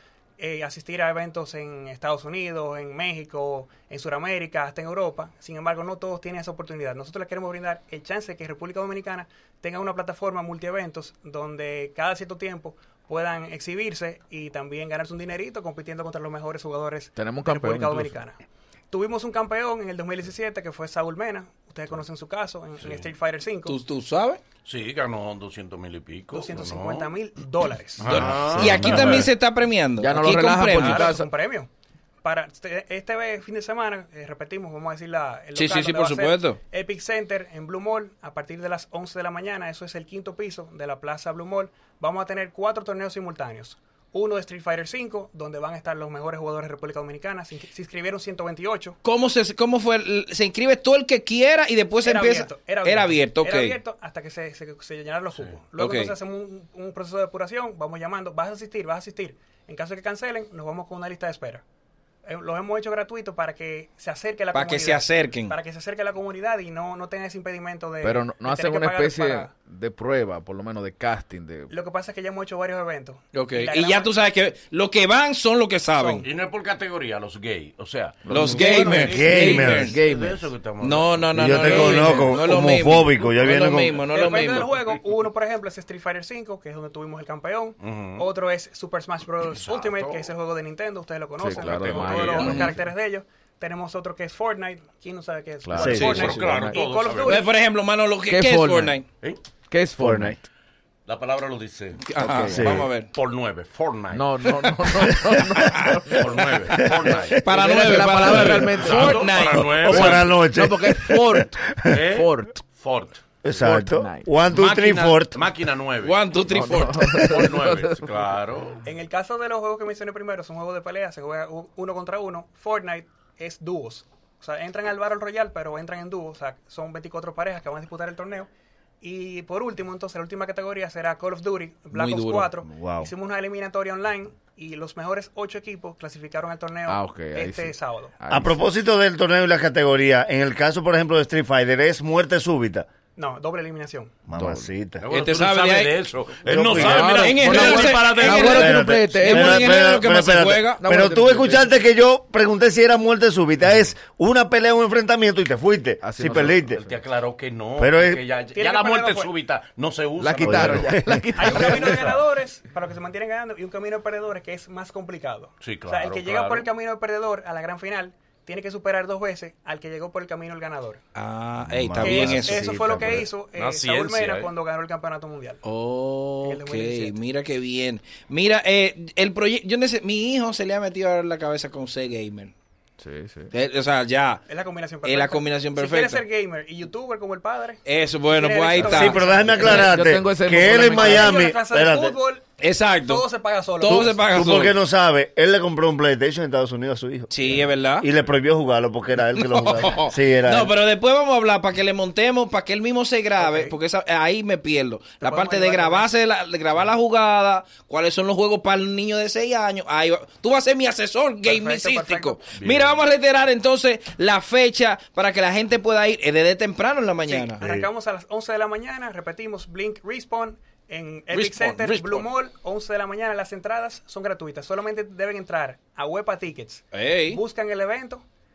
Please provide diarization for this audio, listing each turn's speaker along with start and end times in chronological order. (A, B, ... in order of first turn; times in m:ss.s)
0:00.4-0:18.4 A
0:17.2-0:18.2 B
0:18.9-0:23.8 A
0:22.8-0:23.1 C
0:23.7-0:24.4 D
0:24.6-0:27.1 C
0:26.3-0:28.2 A
0:28.0-0:29.3 C
0:28.1-0:31.1 D
0:28.4-0:29.3 B
0:30.0-0:31.3 B
0:30.8-0:31.7 A
0:32.2-0:49.0 A
0:35.5-0:36.6 D
0:49.0-0:53.8 D
0:52.0-1:01.6 A
0:55.3-0:55.6 C
0:55.8-0:56.1 D
1:02.2-1:09.5 A
1:04.5-1:05.6 D
1:08.0-1:11.7 B
1:11.7-1:14.1 A
1:13.3-1:16.3 D
1:15.9-1:16.3 A
1:16.2-1:18.8 C
1:18.2-1:20.5 B
1:18.3-1:20.0 D
1:18.5-1:19.4 A
1:19.0-1:20.0 E
1:19.4-1:22.3 C
1:20.8-1:24.7 D
1:21.3-1:24.0 E
1:24.1-1:37.5 A
1:27.8-1:28.3 C
1:29.7-1:30.2 C
1:31.4-1:32.8 B
1:31.8-1:32.6 C
1:32.5-1:32.7 D
1:35.6-1:36.8 B
1:35.7-1:37.5 C
1:35.8-1:36.5 E
1:37.2-1:39.0 D
1:38.3-1:39.0 B
1:39.7-1:40.5 B
1:40.0-1:40.4 E
1:41.1-1:42.0 C
1:42.1-1:43.1 D
1:42.2-1:42.8 B
1:42.5-1:42.9 E
1:43.0-1:44.7 C
1:44.1-1:52.6 B
1:45.1-1:45.6 E
1:45.5-1:46.0 D
1:46.1-1:47.4 C
1:46.8-1:47.1 E
1:47.4-1:50.1 D
1:48.3-1:50.3 C
1:49.6-1:52.0 E
1:51.9-1:53.2 C
1:53.4-1:55.4 E
1:53.6-1:54.3 B
1:54.5-1:56.2 C
1:56.0-1:57.3 D
1:56.5-1:58.0 B
1:57.1-1:58.8 C
1:58.8-2:08.5 A
2:09.0-2:18.2 A
2:11.9-2:12.5 D
2:12.7-2:13.1 E
2:16.9-2:18.7 B
2:18.3-2:22.9 E
2:23.2-2:24.2 A
2:24.3-2:25.0 E
2:24.3-2:24.7 B
2:25.0-2:28.8 C
2:25.1-2:26.0 D
2:26.5-2:27.0 E
2:26.8-2:29.8 B
2:27.0-2:30.8 D
2:28.5-2:36.8 E
2:30.8-2:31.7 B
2:36.0-2:37.0 B
2:36.8-2:41.0 C
2:37.8-2:38.2 E
2:38.5-2:39.3 A
2:40.2-2:42.2 B
2:40.4-2:41.3 E
2:41.3-2:51.0 A
2:41.7-2:42.1 C
2:45.6-2:46.7 C
2:51.2-2:52.7 D
2:51.7-2:53.3 E
2:52.0-2:55.6 A
2:53.5-2:54.5 C
2:55.6-3:02.5 D
2:56.4-2:57.2 A
3:03.0-3:03.5 B
3:03.5-3:04.4 D
3:04.5-3:09.4 A
3:05.0-3:06.2 D
3:07.8-3:09.8 D
3:08.8-3:11.4 B
3:08.8-3:12.2 E
3:10.5-3:12.4 A
3:12.6-3:13.2 D
3:13.0-3:14.2 A
3:13.8-3:14.8 D
3:13.9-3:20.7 E
3:17.3-3:18.1 D
3:19.3-3:37.6 D
3:23.4-3:23.8 A
3:25.2-3:26.1 A
3:31.4-3:32.4 A
3:32.5-3:33.0 C
3:37.3-3:48.2 A
3:37.6-3:37.9 E
3:41.3-3:42.3 D
3:46.9-3:47.4 D